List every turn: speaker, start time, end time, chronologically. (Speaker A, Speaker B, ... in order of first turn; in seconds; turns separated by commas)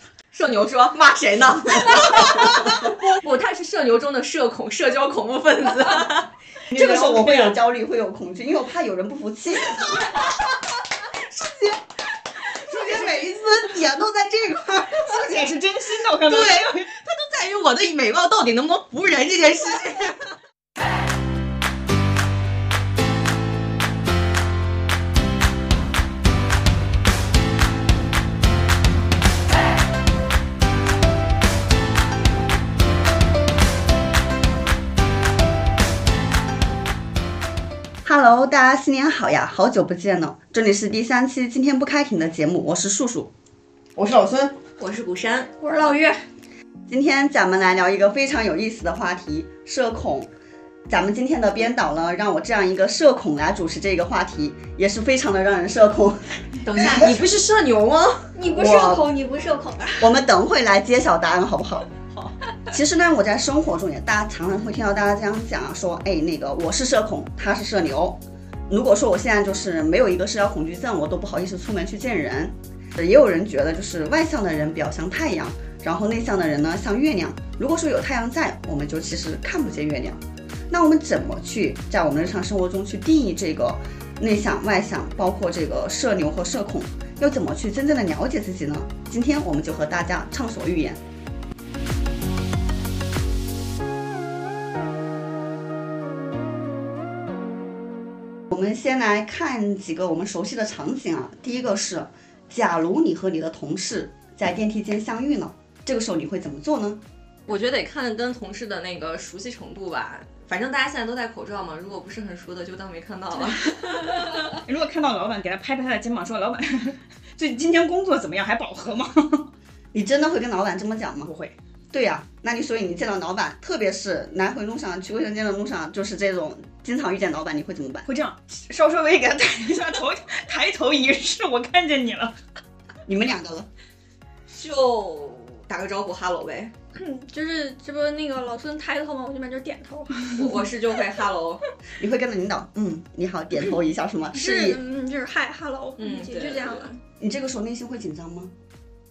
Speaker A: 0.3-6.3, Speaker B: 6.7-7.5, Speaker C: 6.7-10.4, Speaker C: 11.1-11.8, Speaker C: 12.5-15.3, Speaker B: 15.0-16.9, Speaker A: 16.2-20.3, Speaker C: 38.0-43.3, Speaker C: 44.0-44.5, Speaker A: 44.8-45.5, Speaker D: 45.6-46.2, Speaker C: 46.9-50.3, Speaker C: 50.9-57.1, Speaker A: 56.6-58.3, Speaker D: 58.3-60.1, Speaker C: 58.5-59.1, Speaker C: 60.0-61.9, Speaker C: 62.7-68.2, Speaker C: 68.7-91.0, Speaker C: 98.5-107.0, Speaker A: 107.5-114.5, Speaker B: 114.4-119.5, Speaker C: 119.9-121.3, Speaker B: 121.2-121.5, Speaker C: 121.9-128.1, Speaker B: 128.1-132.3, Speaker C: 133.1-133.7, Speaker A: 134.5-136.7, Speaker D: 136.9-140.7, Speaker A: 140.3-141.6, Speaker C: 142.0-144.8, Speaker D: 144.3-146.9, Speaker A: 146.0-146.9, Speaker C: 147.2-148.5